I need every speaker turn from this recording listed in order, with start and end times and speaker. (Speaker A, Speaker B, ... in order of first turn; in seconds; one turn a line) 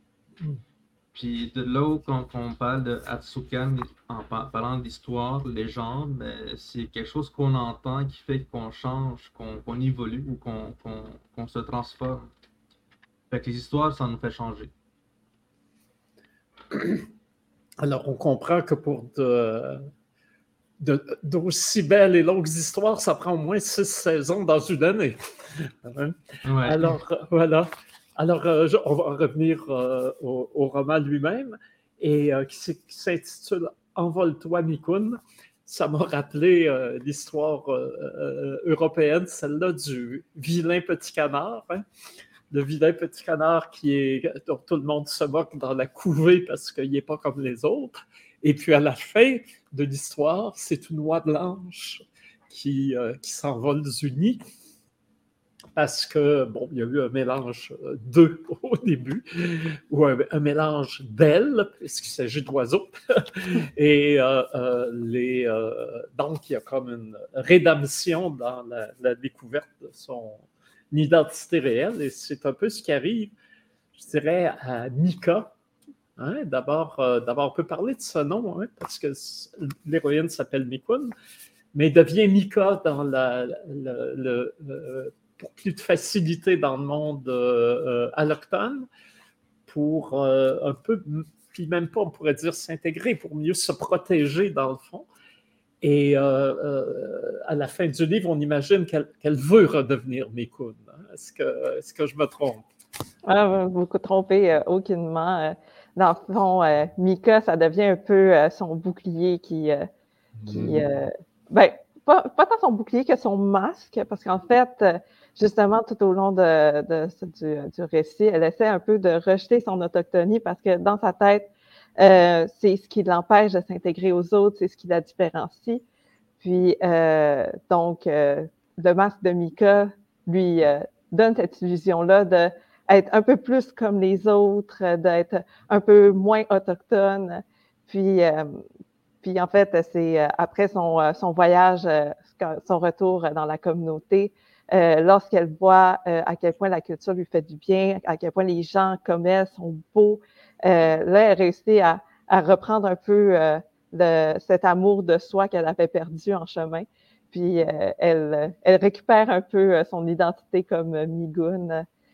Speaker A: 1.1-12.3
Speaker A: 13.3-14.7
Speaker B: 16.7-17.1
Speaker B: 17.8-19.8
Speaker B: 20.8-41.9
Speaker A: 26.4-27.0
Speaker B: 42.5-54.4
Speaker B: 55.8-73.3
Speaker B: 74.0-75.5
Speaker B: 76.2-81.1
Speaker B: 81.7-88.9
Speaker B: 89.7-95.1
Speaker B: 95.8-102.7
Speaker C: 103.2-109.9
Speaker B: 110.4-110.8
Speaker C: 110.5-125.8
Speaker C: 126.4-138.6
Speaker C: 139.2-161.9